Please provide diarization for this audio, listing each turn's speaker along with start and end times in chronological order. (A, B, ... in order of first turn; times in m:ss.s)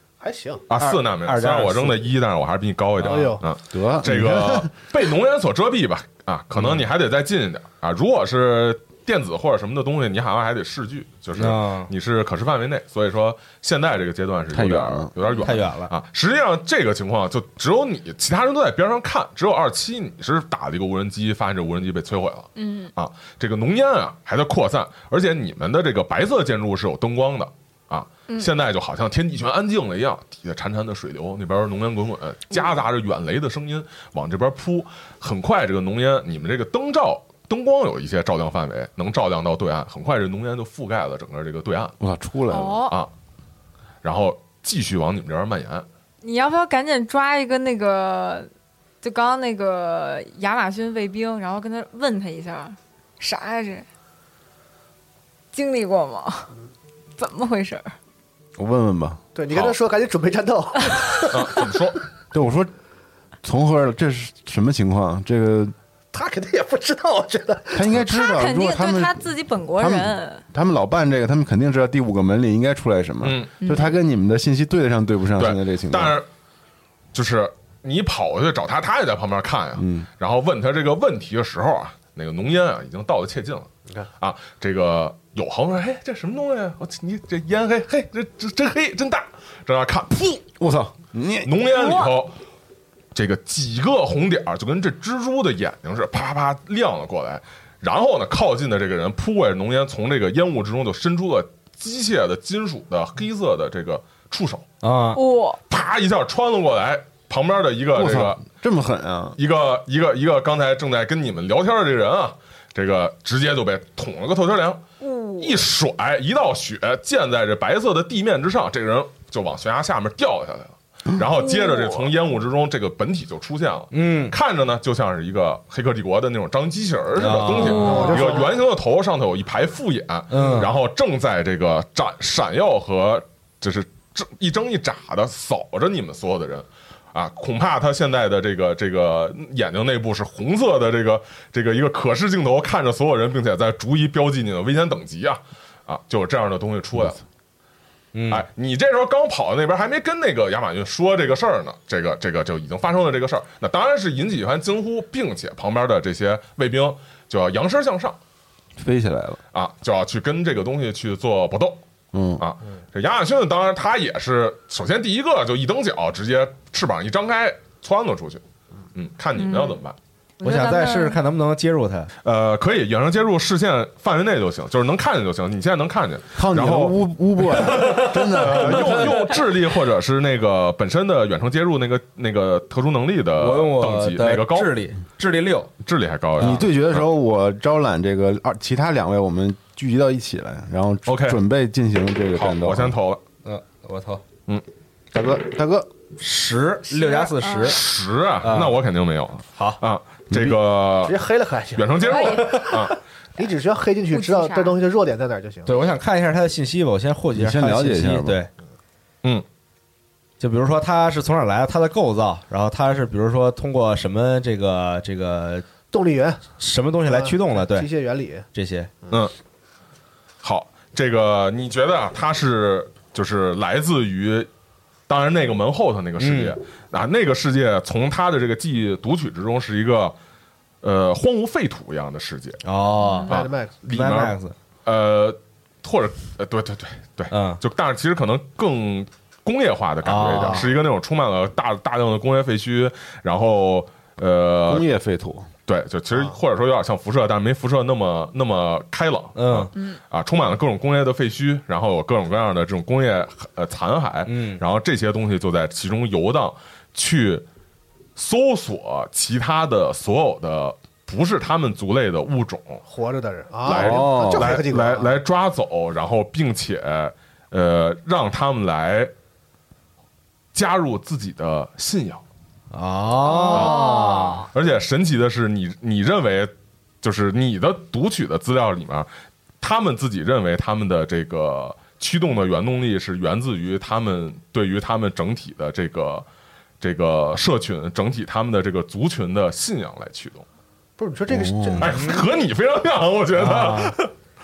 0:00.2-0:00.6 A
0:00.7-0:41.9 B
0:00.8-0:02.0 C
0:03.0-0:03.3 C
0:03.0-0:03.4 A
0:03.7-0:04.7 D
0:06.6-0:06.8 C
0:11.4-0:11.9 C
0:14.5-0:15.1 D
0:15.2-0:15.5 E
0:15.3-0:15.9 C
0:22.6-0:22.9 E
0:42.0-0:42.9 D
0:42.5-0:43.0 E
0:44.0-0:45.8 B
0:46.2-0:48.5 E
0:49.0-0:53.8 E
0:55.5-0:56.5 E
0:57.2-0:57.9 E
0:58.6-0:59.2 D
0:59.3-1:01.7 A
0:59.5-0:59.8 B
1:01.3-1:02.0 B
1:02.3-1:02.7 D
1:03.4-1:05.7 D
1:06.1-1:08.0 A
1:07.7-1:16.2 D
1:08.1-1:10.4 E
1:13.2-1:13.5 B
1:13.6-1:14.0 E
1:15.4-1:16.2 B
1:17.1-1:30.4 B
1:19.8-1:20.1 D
1:30.6-1:31.5 D
1:31.4-1:32.3 B
1:31.6-1:32.1 E
1:33.1-1:44.7 B
1:44.8-1:45.2 C
1:45.1-1:45.6 E
1:45.7-1:48.4 B
1:47.9-1:49.4 D
1:49.4-1:54.8 B
1:55.0-1:55.6 E
1:55.4-2:27.2 B
2:01.4-2:02.0 E
2:03.9-2:04.3 C
2:07.2-2:08.2 C
2:07.4-2:08.6 A
2:07.5-2:08.3 E
2:10.3-2:10.7 C
2:28.1-2:28.4 C
2:28.3-2:38.2 B
2:38.8-2:39.4 D
2:39.5-2:41.8 B
2:42.1-2:42.4 D
2:42.4-2:48.4 B
2:48.9-2:50.0 B
2:49.3-2:49.8 E
2:50.4-2:51.2 E
2:50.4-2:52.1 C
2:52.2-2:57.0 B
2:56.3-2:59.0 D
2:57.5-3:04.8 B
2:57.7-2:59.1 C
2:59.1-2:59.4 E
3:03.4-3:05.7 C
3:05.8-3:07.0 B
3:06.4-3:12.9 D
3:11.1-3:11.4 B
3:12.3-3:13.2 B
3:13.4-3:14.2 C
3:15.1-3:15.9 D
3:16.2-3:17.8 C
3:16.9-3:17.8 E
3:17.6-3:21.2 B
3:18.4-3:18.8 C
3:19.6-3:19.8 C
3:21.0-3:22.3 A
3:21.7-3:23.0 B
3:22.0-3:22.8 E
3:22.4-3:22.7 C
3:23.4-3:25.8 A
3:24.1-3:24.8 E
3:25.6-3:28.5 C
3:27.3-3:28.4 D
3:30.4-3:35.6 C
3:35.9-3:36.4 A
3:36.6-3:37.9 C
3:37.1-3:38.5 A
3:38.5-3:38.9 C
3:40.4-3:44.5 B
3:45.1-3:50.1 B
3:46.2-3:46.6 C
3:50.8-3:52.6 B
3:52.6-3:53.3 C
3:53.0-3:53.3 E
3:53.3-3:53.7 A
3:53.3-4:04.8 B
3:53.8-3:54.5 C
3:57.3-3:57.6 C
4:00.0-4:00.6 C
4:00.3-4:00.7 A
4:04.7-4:05.5 D
4:05.7-4:17.4 B
4:09.4-4:09.7 C
4:14.3-4:14.6 C
4:18.2-4:22.8 B
4:22.9-4:25.1 A
4:23.6-4:29.1 B
4:23.6-4:24.6 D
4:30.5-4:32.2 B
4:32.7-4:34.5 C
4:33.2-4:34.5 E
4:33.5-4:33.8 B
4:34.5-4:36.5 B
4:37.0-4:39.1 B
4:39.6-4:46.2 B
4:46.8-4:50.4 B
4:51.0-4:52.2 A
4:51.3-4:51.9 D
4:51.8-4:54.1 B
4:51.8-4:52.2 C
4:53.3-4:54.0 C